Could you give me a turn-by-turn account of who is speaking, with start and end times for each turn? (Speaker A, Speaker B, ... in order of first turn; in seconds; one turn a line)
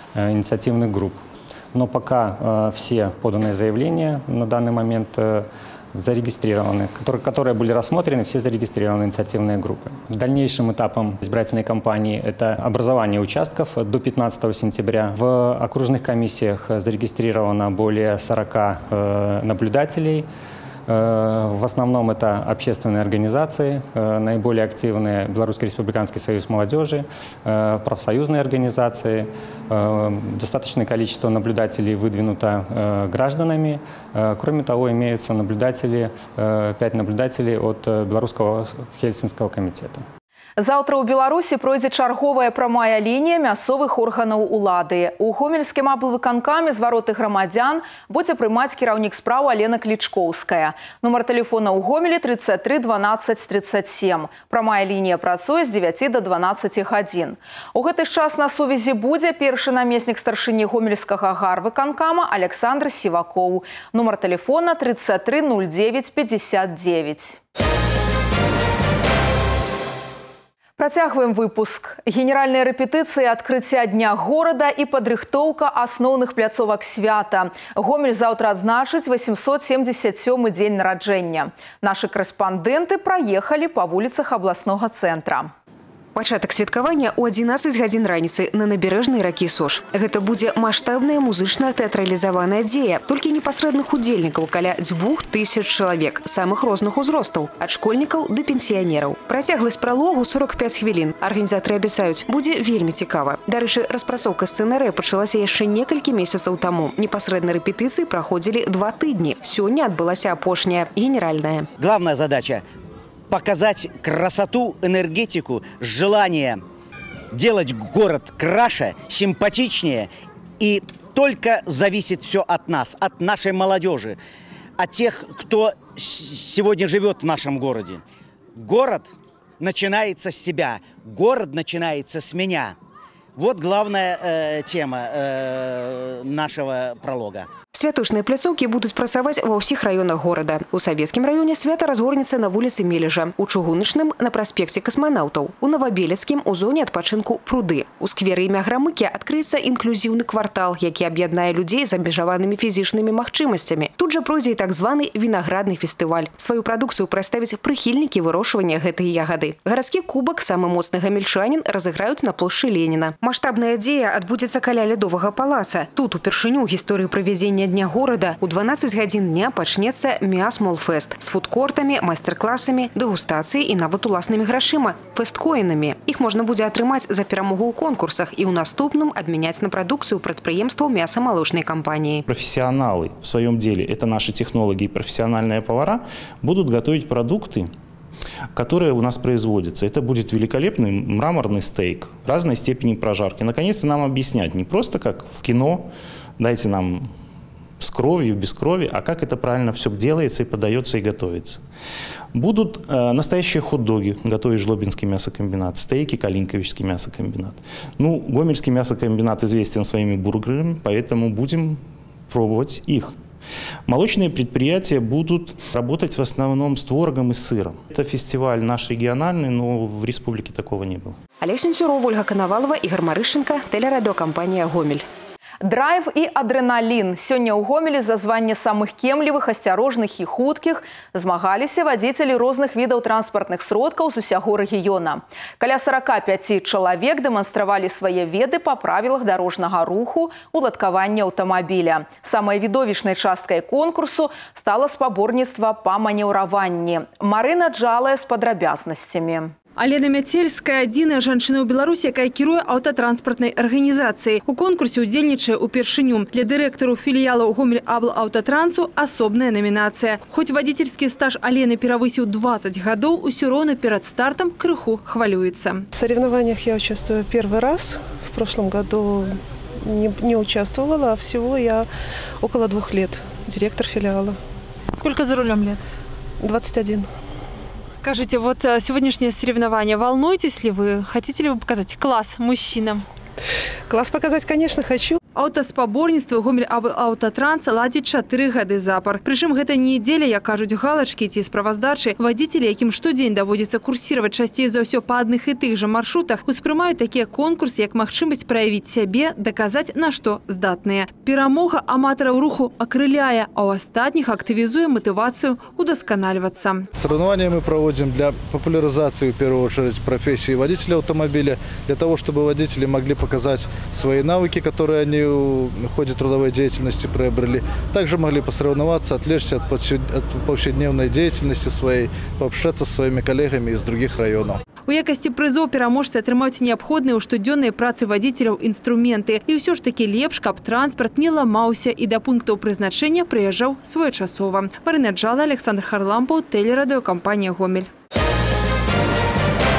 Speaker A: 0.1-1.2
Speaker A: 1.7-20.3
Speaker A: 20.9-40.0
Speaker B: 40.6-67.4
Speaker B: 70.8-85.5
Speaker C: 86.2-111.7
Speaker D: 111.8-112.6
Speaker D: 113.3-116.6
Speaker D: 117.3-120.1
Speaker D: 120.6-124.2
Speaker D: 124.8-128.0
Speaker D: 128.6-129.1
Speaker D: 129.6-132.8
Speaker D: 133.4-137.5
Speaker C: 137.7-182.2
Speaker E: 182.3-187.7
Speaker E: 188.6-197.1
Speaker E: 197.8-201.6
Speaker E: 202.3-213.2
Speaker E: 213.9-221.2
Speaker C: 221.4-225.1
Speaker B: 225.6-249.5
Speaker F: 249.8-265.9
Speaker G: 265.9-271.9
Speaker G: 272.4-274.4
Speaker F: 275.0-275.8
Speaker G: 276.4-277.1
Speaker F: 278.0-283.1
Speaker G: 283.9-285.2
Speaker F: 285.4-306.9
Speaker H: 306.9-324.6
Speaker F: 324.9-337.9